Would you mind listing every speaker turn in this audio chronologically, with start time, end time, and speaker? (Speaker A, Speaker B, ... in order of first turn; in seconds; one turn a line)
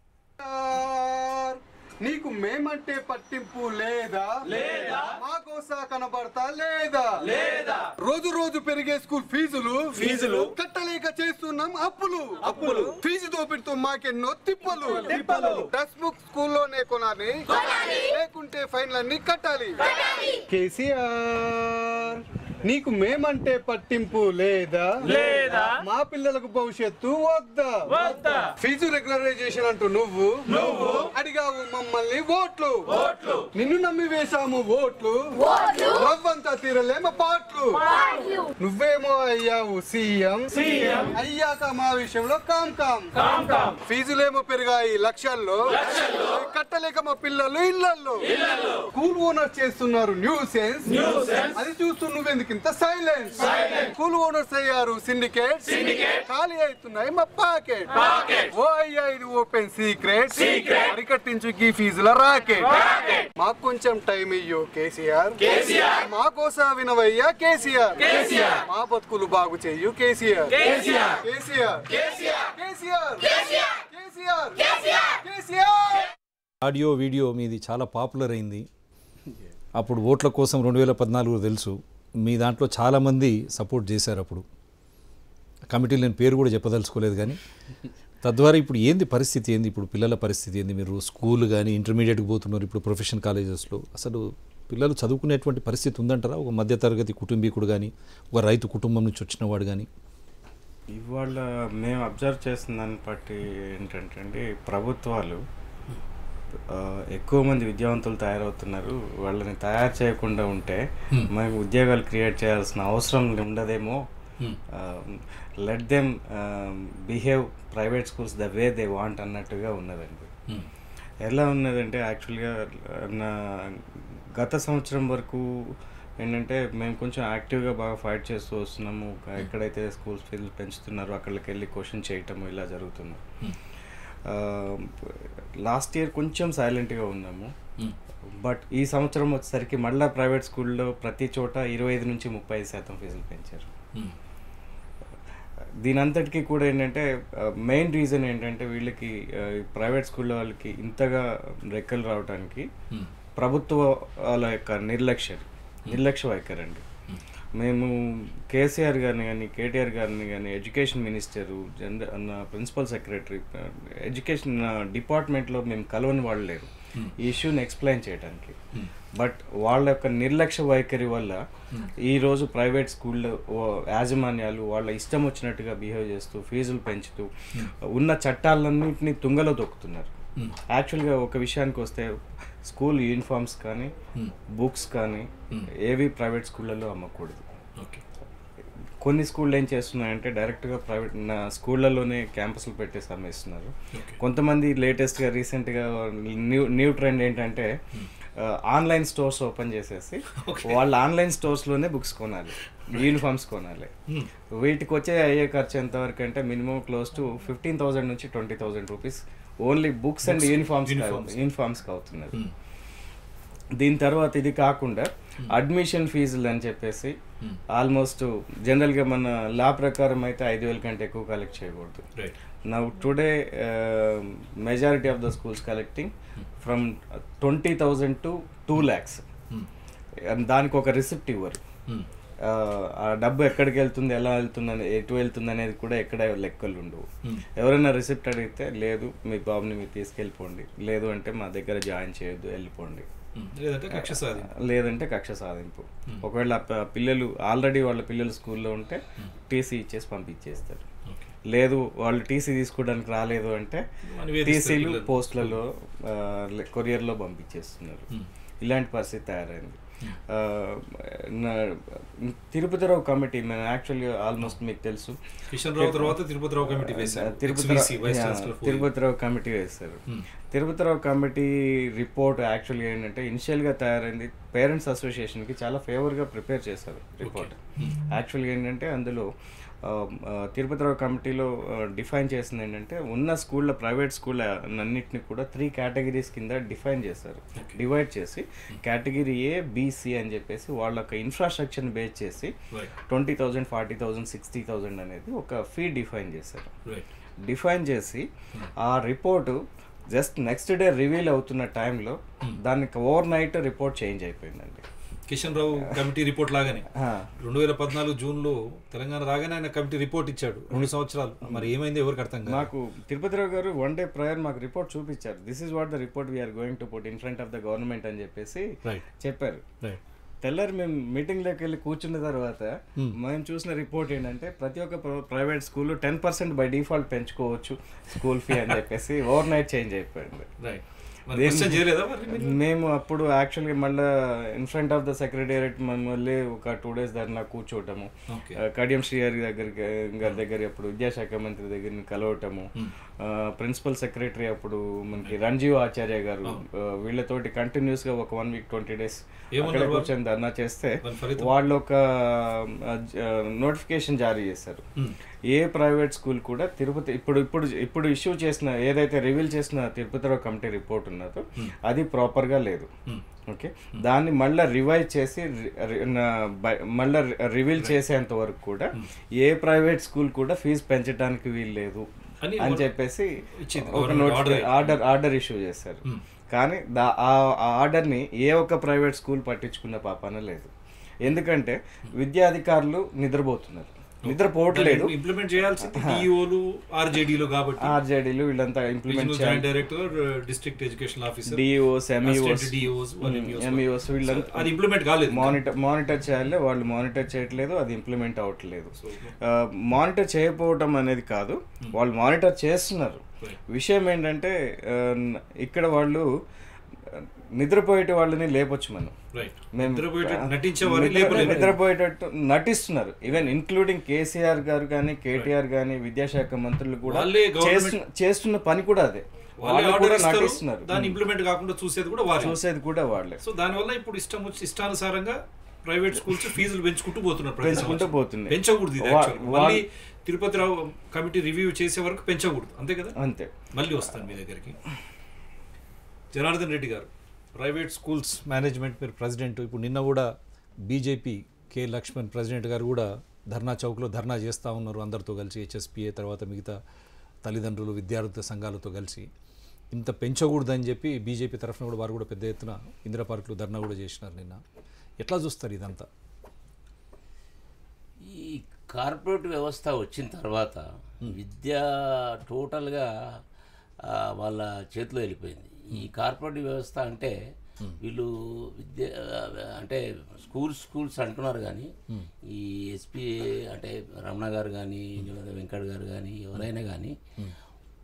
Speaker A: 0.4-76.1
Speaker B: 76.6-78.7
Speaker B: 79.8-84.4
Speaker B: 85.7-87.4
Speaker B: 88.2-99.9
Speaker C: 100.9-105.4
Speaker C: 106.7-114.0
Speaker C: 114.7-120.3
Speaker C: 121.2-133.2
Speaker C: 134.2-137.5
Speaker C: 138.4-143.7
Speaker C: 145.8-152.7
Speaker C: 153.3-156.8
Speaker C: 157.6-168.6
Speaker C: 169.1-171.4
Speaker C: 172.0-180.1
Speaker C: 180.7-183.9
Speaker C: 184.5-187.4
Speaker B: 187.8-188.0
Speaker C: 189.0-197.8
Speaker B: 193.9-194.2
Speaker C: 198.4-203.9
Speaker B: 200.3-200.9
Speaker B: 202.9-203.1
Speaker C: 204.5-212.4
Speaker B: 210.2-211.4
Speaker C: 213.8-217.2
Speaker C: 217.7-222.1
Speaker C: 222.7-229.2
Speaker C: 230.3-231.6
Speaker C: 232.4-243.1
Speaker B: 243.3-244.5
Speaker C: 243.9-250.9
Speaker B: 251.1-251.3
Speaker C: 251.5-253.8
Speaker B: 254.0-255.6
Speaker C: 254.4-258.1
Speaker C: 258.6-279.3
Speaker B: 265.5-268.9
Speaker B: 277.2-278.0
Speaker C: 279.8-296.7
Speaker B: 287.5-287.8
Speaker B: 296.8-297.1
Speaker C: 297.4-304.8
Speaker B: 305.3-306.9
Speaker C: 306.9-307.3
Speaker B: 307.4-312.7
Speaker C: 312.4-319.6
Speaker C: 320.4-330.5
Speaker B: 328.5-328.8
Speaker B: 330.6-332.6
Speaker C: 331.3-354.8
Speaker B: 338.3-338.6
Speaker B: 349.5-350.1
Speaker B: 351.0-351.6
Speaker C: 355.5-362.9
Speaker C: 363.5-380.7
Speaker B: 372.4-372.9
Speaker B: 373.6-375.0
Speaker C: 381.2-385.2
Speaker B: 384.2-388.0
Speaker C: 385.8-386.2
Speaker C: 387.8-389.7
Speaker B: 389.1-391.7
Speaker C: 391.5-406.3
Speaker B: 392.2-395.6
Speaker B: 399.0-399.4
Speaker C: 407.1-409.2
Speaker B: 409.3-411.8
Speaker C: 409.7-421.1
Speaker B: 417.1-418.0
Speaker B: 419.6-422.6
Speaker C: 422.4-423.4
Speaker B: 423.4-433.1
Speaker C: 427.6-429.8
Speaker C: 433.1-433.6
Speaker B: 433.7-434.8
Speaker B: 436.3-440.3
Speaker B: 440.9-446.8
Speaker B: 447.4-449.3
Speaker B: 449.9-454.6
Speaker B: 455.2-456.1
Speaker D: 458.2-463.1
Speaker D: 464.0-467.4
Speaker D: 468.0-471.9
Speaker D: 472.4-477.1